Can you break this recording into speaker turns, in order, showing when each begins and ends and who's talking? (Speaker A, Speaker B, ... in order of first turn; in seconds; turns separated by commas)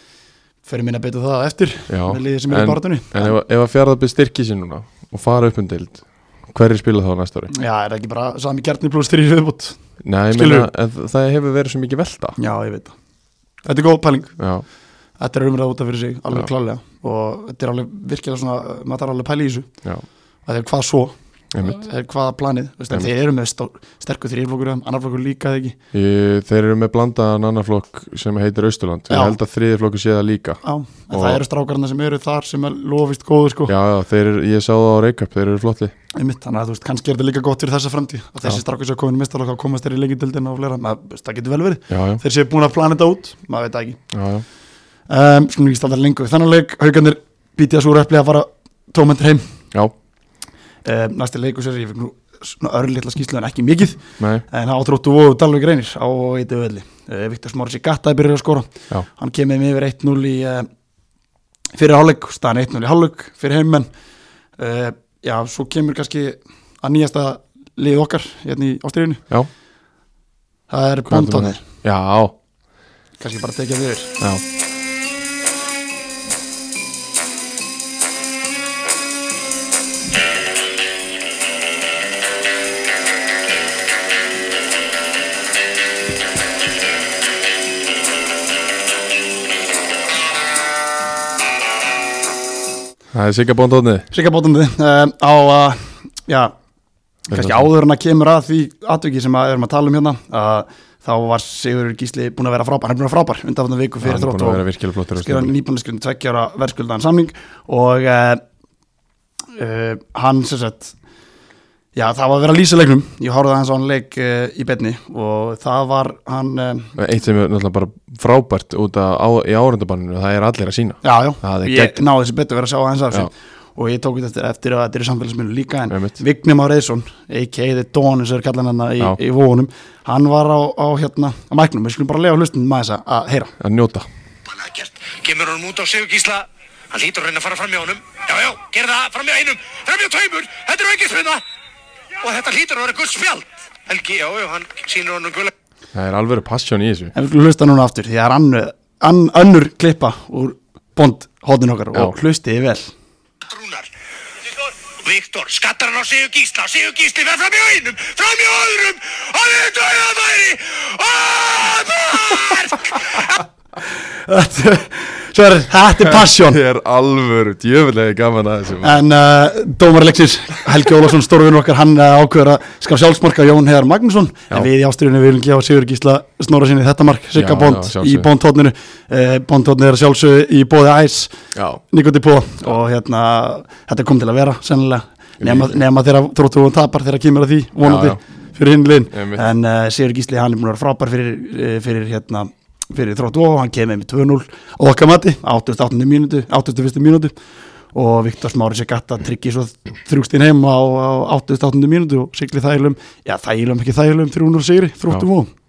Speaker A: 0.6-3.4, Speaker B: 1.9-7.5, Speaker A: 7.5-9.8, Speaker B: 10.0-12.4, Speaker A: 10.3-10.7, Speaker A: 12.4-12.9, Speaker A: 13.6-14.4, Speaker B: 14.4-14.6, Speaker A: 15.2-19.7, Speaker A: 20.4-25.8, Speaker B: 25.9-31.4, Speaker A: 29.1-29.4, Speaker A: 30.6-33.7, Speaker B: 33.7-35.9, Speaker A: 36.1-44.0, Speaker B: 41.9-42.2, Speaker B: 44.1-44.4, Speaker A: 45.1-49.5, Speaker A: 50.8-60.7, Speaker B: 54.2-54.4, Speaker A: 61.7-63.9, Speaker A: 64.6-69.2, Speaker A: 70.7-71.6, Speaker B: 71.1-72.3, Speaker A: 73.2-74.1, Speaker B: 93.1-94.1, Speaker A: 94.1-96.5, Speaker A: 97.3-104.6, Speaker B: 97.3-97.7, Speaker B: 104.0-105.5, Speaker A: 105.2-108.4, Speaker A: 109.5-110.9, Speaker A: 111.9-116.9, Speaker B: 117.0-122.0, Speaker A: 121.0-133.5, Speaker B: 125.9-126.2, Speaker B: 133.6-134.1, Speaker C: 134.5-141.4, Speaker C: 142.2-145.5, Speaker B: 145.9-147.1, Speaker A: 147.1-152.9, Speaker C: 153.5-153.9, Speaker C: 154.8-163.4, Speaker A: 164.0-166.6, Speaker B: 166.0-169.0, Speaker A: 168.8-181.3, Speaker B: 177.3-178.3, Speaker B: 181.5-181.8, Speaker A: 181.9-197.3, Speaker B: 185.4-185.7, Speaker B: 187.8-188.2, Speaker B: 189.1-189.5, Speaker A: 197.9-205.5